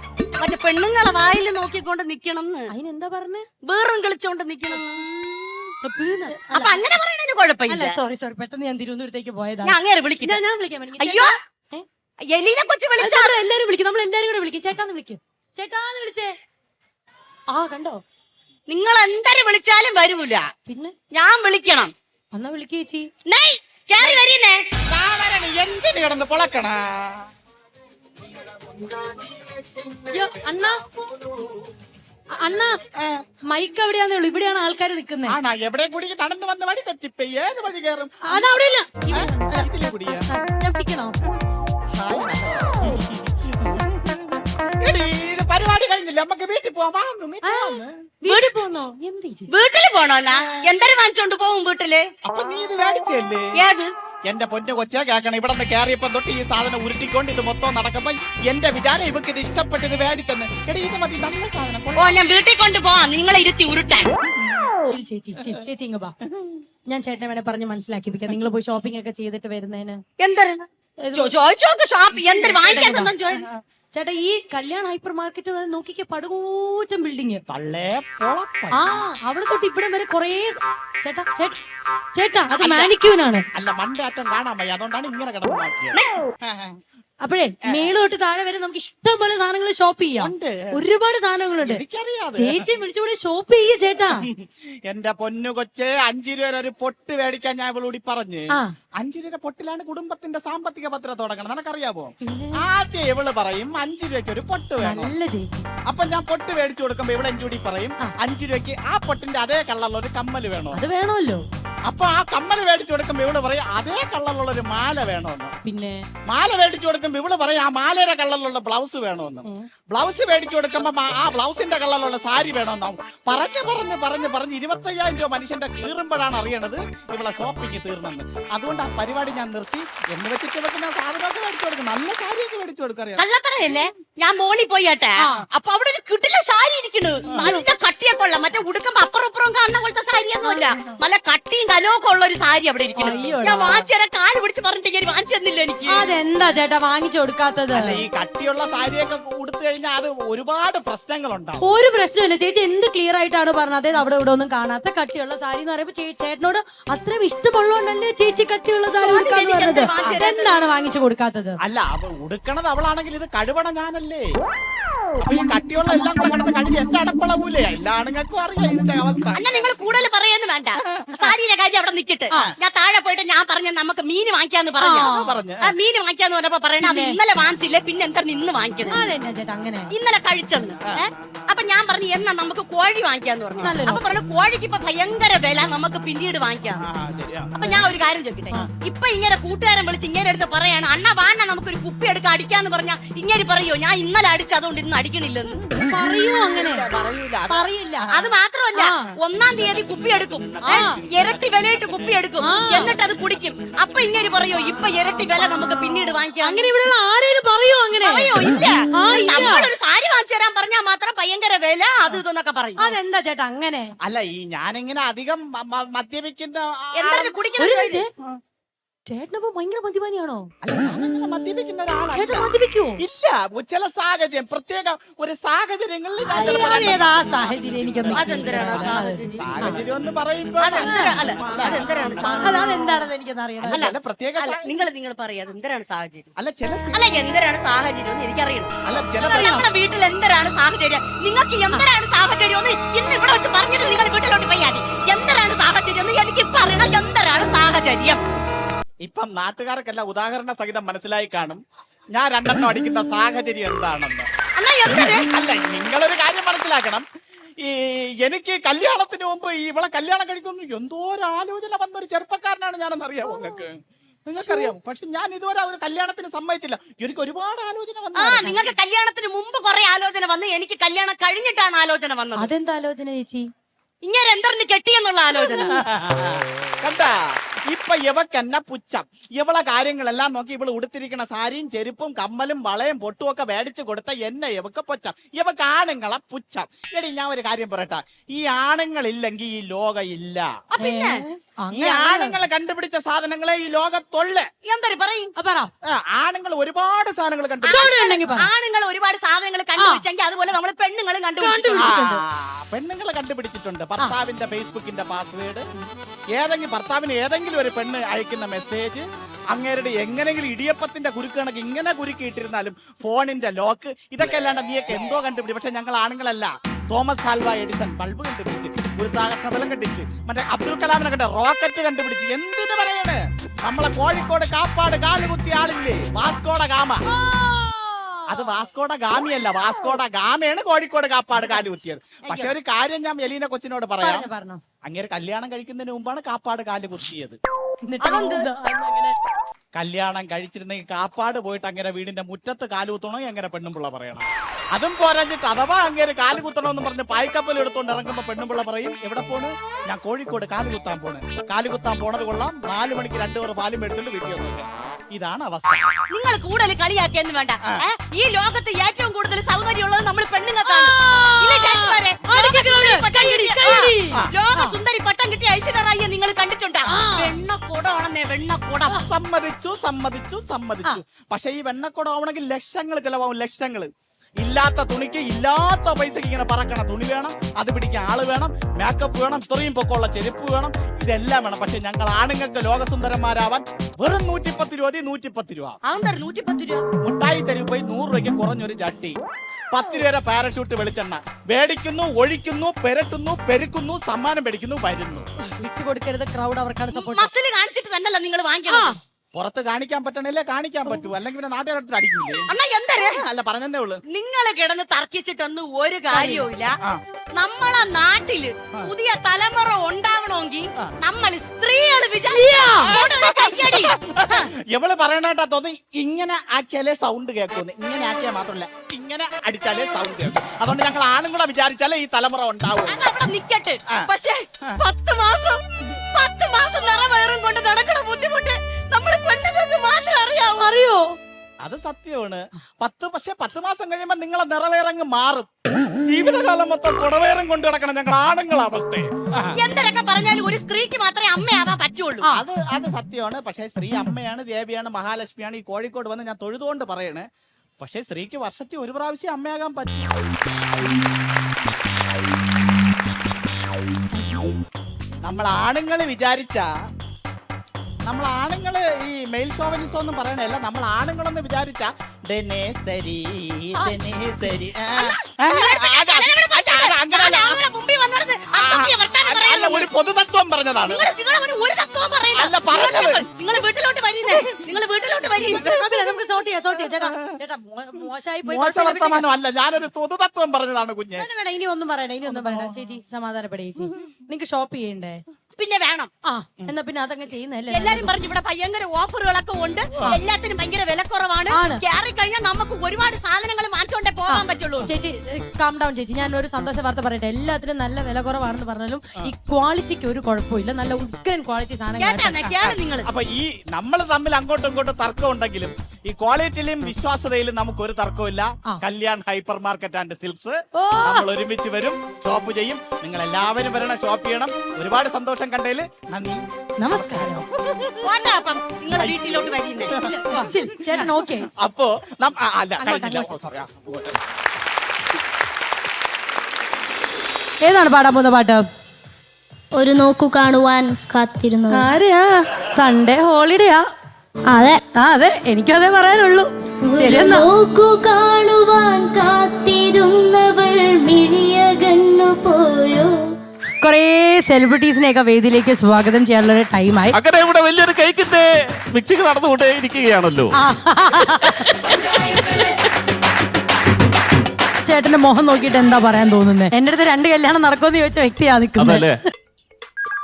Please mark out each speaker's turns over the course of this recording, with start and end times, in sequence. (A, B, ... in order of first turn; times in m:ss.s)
0:00.4-0:02.7 A
0:02.7-0:03.5 B
0:03.6-0:05.7 A
0:05.8-0:06.8 B
0:06.4-0:08.0 A
0:07.7-0:11.8 B
0:09.6-0:10.4 A
0:11.0-0:11.3 A
0:12.3-0:13.4 A
0:13.0-0:16.3 B
0:17.5-0:18.0 B
0:18.7-0:20.5 A
0:20.7-0:21.0 B
0:21.1-0:21.9 A
0:22.3-0:23.1 B
0:23.3-0:24.6 A
0:24.9-0:27.3 C
0:28.8-0:30.0 C
0:30.1-0:31.0 B
0:32.4-0:32.8 B
0:33.5-0:35.4 B
0:35.3-0:38.4 C
0:38.3-0:39.7 B
0:39.1-0:40.3 C
0:40.3-0:41.2 B
0:42.0-0:47.9 C
0:47.4-0:49.5 B
0:48.3-0:48.5 A
0:49.5-0:52.1 A
0:52.2-0:53.5 C
0:53.6-0:53.9 A
0:54.3-1:02.2 C
1:02.0-1:04.1 A
1:04.9-1:06.2 B
1:06.9-1:10.0 B
1:10.2-1:13.5 A
1:11.0-1:11.3 B
1:12.3-1:13.1 B
1:13.9-1:17.4 B
1:17.5-1:18.8 C
1:18.8-1:21.6 B
1:22.2-1:23.5 B
1:22.6-1:22.9 C
1:23.6-1:26.8 C
1:27.2-1:31.8 B
1:30.2-1:30.6 C
1:31.6-1:32.7 C
1:32.4-1:34.3 B
1:34.1-1:38.5 C
1:39.0-1:45.2 C
1:42.2-1:42.6 B
1:44.8-1:45.7 B
1:45.9-1:50.8 C
1:50.7-1:51.4 B
1:51.9-1:55.5 C
1:55.6-1:56.1 B
1:56.3-2:13.2 C
2:13.2-2:26.1 A
2:17.4-2:17.6 B
2:23.0-2:23.9 B
2:25.9-2:28.0 B
2:27.7-2:31.6 C
2:31.6-2:41.6 B
2:39.0-2:40.7 A
2:41.6-2:44.3 C
2:45.2-2:49.8 C
2:49.4-2:59.1 A
2:51.0-2:51.3 C
2:54.8-2:55.4 B
2:55.0-2:55.7 C
2:56.8-2:57.2 B
2:58.9-2:59.9 B
2:59.9-3:06.8 A
3:03.6-3:04.0 B
3:06.8-3:07.9 C
3:07.6-3:15.6 A
3:15.8-3:16.9 B
3:15.9-3:18.3 C
3:17.5-3:18.1 B
3:18.1-3:26.7 A
3:18.7-3:19.1 B
3:19.5-3:22.2 C
3:20.7-3:21.0 B
3:22.4-3:22.9 B
3:24.7-3:25.5 C
3:26.4-3:28.4 B
3:28.0-3:32.8 A
3:28.9-3:29.7 B
3:32.8-3:33.9 B
3:34.0-3:37.4 C
3:37.0-3:38.0 A
3:37.6-3:38.1 B
3:39.1-3:40.5 B
3:40.6-3:52.3 C
3:42.1-3:43.0 B
3:46.3-3:49.8 B
3:48.1-3:49.8 A
3:50.6-3:52.7 A
3:50.8-3:51.2 B
3:52.2-3:53.8 B
3:53.6-3:54.7 C
3:53.7-3:56.3 A
3:56.4-3:57.2 C
3:56.9-4:08.2 A
3:58.9-3:59.6 C
3:59.3-3:59.6 B
4:09.0-4:11.6 C
4:12.2-4:14.3 C
4:14.6-4:15.3 A
4:15.0-4:17.0 C
4:17.6-4:28.7 C
4:28.2-4:32.5 A
4:32.4-4:33.5 B
4:34.0-4:35.8 A
4:35.6-4:37.1 C
4:37.7-4:50.5 C
4:50.7-4:51.2 A
4:50.8-4:52.4 B
4:51.7-4:54.5 C
4:54.6-4:55.3 A
4:55.4-4:55.7 B
4:55.9-4:57.9 C
4:57.6-5:01.9 A
4:57.7-4:58.5 B
4:59.8-5:00.0 B
5:01.4-5:02.2 B
5:01.8-5:05.6 C
5:06.4-5:27.0 C
5:27.1-5:28.6 B
5:28.3-5:34.3 C
5:31.4-5:31.7 A
5:32.3-5:32.6 A
5:34.0-5:34.6 B
5:34.9-5:37.4 C
5:37.9-5:39.2 B
5:38.0-5:38.5 A
5:39.8-5:55.9 C
5:56.1-6:09.0 A
6:00.6-6:04.8 B
6:06.9-6:07.4 B
6:08.9-6:25.8 C
6:25.8-6:26.8 A
6:27.0-6:29.2 C
6:29.7-6:35.3 C
6:35.6-6:37.3 B
6:36.9-6:39.0 A
6:38.7-6:39.0 B
6:39.4-6:44.0 C
6:42.5-6:43.2 A
6:44.1-6:46.8 A
6:46.1-6:46.5 B
6:47.4-6:54.5 A
6:52.4-6:52.9 B
6:52.8-7:03.0 C
7:02.8-7:10.8 A
7:10.6-7:11.2 B
7:11.6-7:15.5 C
7:16.1-7:19.6 C
7:19.6-7:22.4 A
7:22.3-7:27.3 C
7:27.8-7:30.1 C
7:34.1-7:34.6 B
7:35.2-7:36.7 C
7:38.1-7:47.6 C
7:45.0-7:49.9 A
7:48.6-7:51.1 C
7:50.9-7:55.7 A
7:52.3-7:53.2 C
7:55.4-7:59.2 B
7:55.5-7:55.9 C
7:57.0-7:57.3 C
7:58.4-8:01.3 C
8:01.2-8:05.2 B
8:02.3-8:02.7 C
8:05.6-8:06.1 A
8:06.2-8:08.1 B
8:07.7-8:14.9 A
8:11.5-8:11.8 B
8:14.3-8:22.4 B
8:22.0-8:23.1 A
8:22.5-8:38.1 C
8:30.8-8:31.3 B
8:36.8-8:37.4 B
8:38.0-8:39.9 A
8:38.9-8:44.2 C
8:40.1-8:41.5 B
8:42.8-8:43.3 B
8:47.6-8:48.6 B
8:49.8-8:51.9 D
8:51.7-8:53.8 B
8:54.5-8:54.8 D
8:55.0-8:56.5 B
8:56.9-9:03.1 D
8:57.0-8:57.5 B
9:03.8-9:07.2 B
9:07.1-9:10.6 E
9:10.5-9:11.8 B
9:14.8-9:19.1 B
9:18.8-9:19.2 E